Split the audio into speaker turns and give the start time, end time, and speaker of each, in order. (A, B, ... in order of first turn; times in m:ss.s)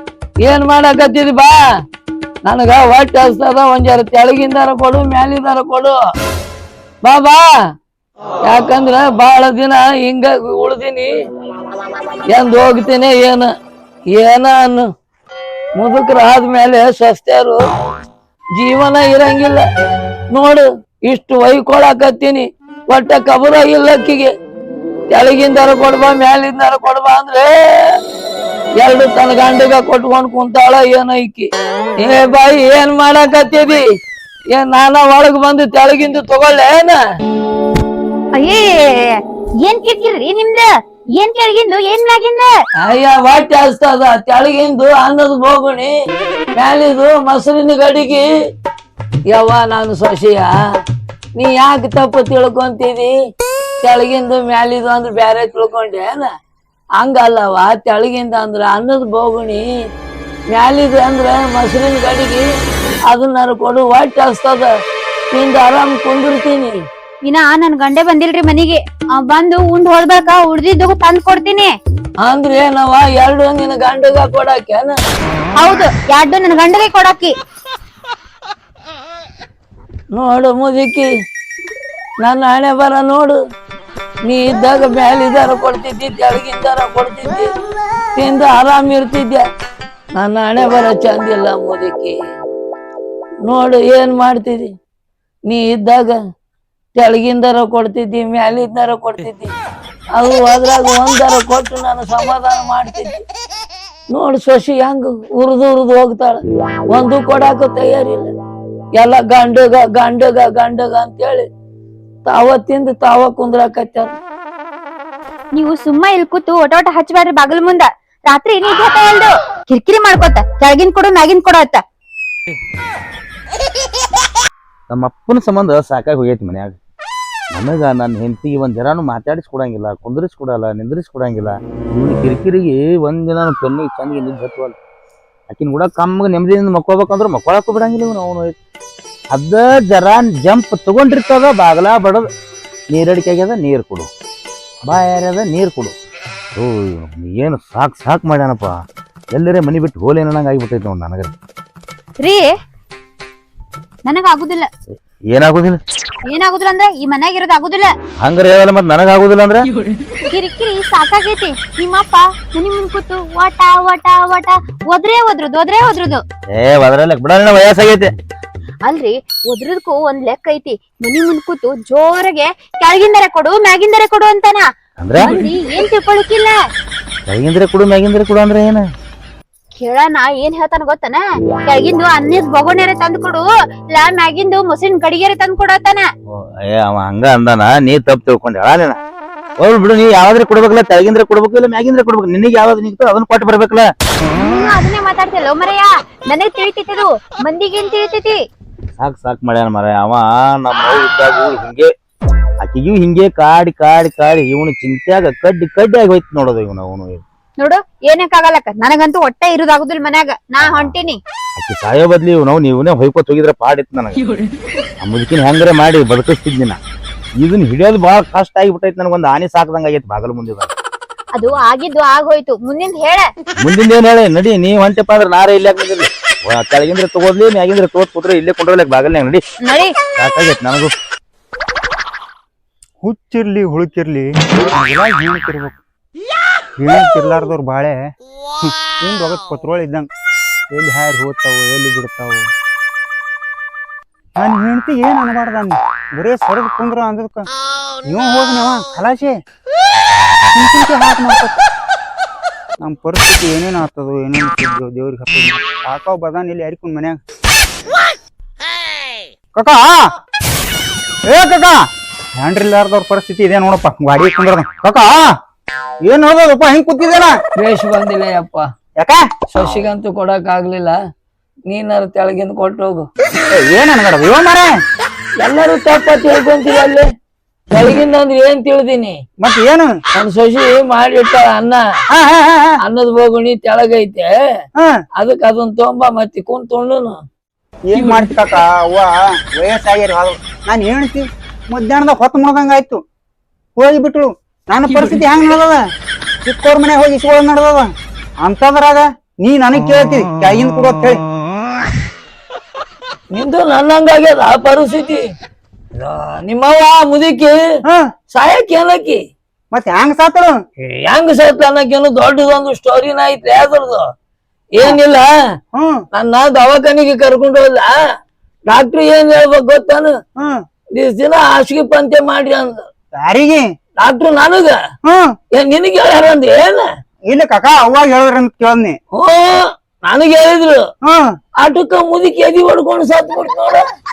0:00.4-0:01.6 A
0:02.4-0:05.9 A
0:07.0-0:07.5 A
0:08.4-0:11.1 A
0:12.3-0:13.5 A
0:14.1-0:14.8 A
0:15.8-0:17.6 A
0:18.6-0:19.6 A
0:20.3-0:24.3 A
0:25.1-0:27.9 A
0:28.8-0:31.5 A
0:32.0-0:33.8 A
0:34.5-0:37.0 A
0:38.4-0:42.5 B
0:42.8-0:45.9 A
0:46.6-0:48.3 A
0:49.3-0:50.5 A
0:51.4-0:53.1 A
0:53.8-0:56.3 A
0:57.0-0:59.6 A
1:00.5-1:02.4 A
1:03.1-1:04.7 A
1:05.3-1:06.8 A
1:07.2-1:11.7 B
1:12.2-1:15.0 A
1:15.6-1:17.4 B
1:20.1-1:21.1 A
1:22.2-1:23.4 A
1:24.2-1:27.5 A
1:28.2-1:29.4 A
1:30.2-1:32.2 A
1:33.4-1:34.7 A
1:35.5-1:36.2 A
1:36.9-1:39.5 A
1:40.1-1:43.2 A
1:44.1-1:48.3 A
1:49.0-1:51.4 A
1:52.2-1:54.1 A
1:55.5-2:01.8 B
2:04.9-2:06.8 C
2:07.5-2:14.7 C
2:15.5-2:18.5 C
2:19.3-2:22.3 C
2:22.9-2:24.1 C
2:24.9-2:25.9 C
2:26.6-2:28.7 C
2:29.3-2:31.3 C
2:32.2-2:32.5 B
2:34.0-2:34.7 B
2:34.9-2:35.8 C
2:36.3-2:37.9 B
2:38.2-2:39.7 C
2:40.3-2:46.2 B
2:46.6-2:48.1 C
2:48.8-2:56.6 B
2:55.0-2:55.3 C
2:57.3-2:58.8 C
2:59.8-3:06.1 B
3:06.3-3:09.0 C
3:09.6-3:13.8 C
3:14.3-3:18.4 B
3:19.0-3:21.9 C
3:22.6-3:27.2 C
3:27.6-3:31.2 B
3:30.6-3:31.0 C
3:31.6-3:34.2 C
3:35.0-3:36.8 C
3:37.4-3:40.7 C
3:41.4-3:43.3 B
3:43.6-3:49.4 C
3:49.6-3:49.9 B
3:50.2-3:50.9 C
3:53.0-3:55.8 D
3:56.8-3:58.0 D
3:58.6-4:00.1 D
4:00.7-4:02.4 D
4:04.4-4:07.5 D
4:08.0-4:09.3 D
4:10.5-4:11.6 D
4:12.8-4:17.2 D
4:19.6-4:19.9 D
4:21.3-4:21.8 D
4:22.4-4:25.2 D
4:26.1-4:27.3 D
4:27.6-4:28.6 A
4:29.5-4:31.0 A
4:31.7-4:33.1 A
4:33.5-4:34.7 D
4:35.4-4:37.0 A
4:37.7-4:39.2 A
4:39.4-4:39.9 D
4:40.2-4:41.8 A
4:42.1-4:42.7 D
4:42.8-4:44.3 A
4:45.2-4:47.2 A
4:47.9-4:53.0 D
4:53.8-4:55.8 D
4:56.4-4:57.9 D
4:58.4-5:01.2 D
5:03.3-5:05.2 A
5:06.0-5:07.6 A
5:08.3-5:09.2 A
5:09.7-5:10.5 D
5:10.8-5:14.0 A
5:14.8-5:15.3 A
5:15.7-5:16.0 D
5:16.1-5:17.9 A
5:18.7-5:20.1 A
5:21.0-5:22.8 A
5:23.2-5:23.6 D
5:24.0-5:24.8 A
5:25.0-5:25.3 D
5:25.6-5:26.8 A
5:27.3-5:29.0 D
5:29.2-5:30.8 A
5:31.6-5:33.8 A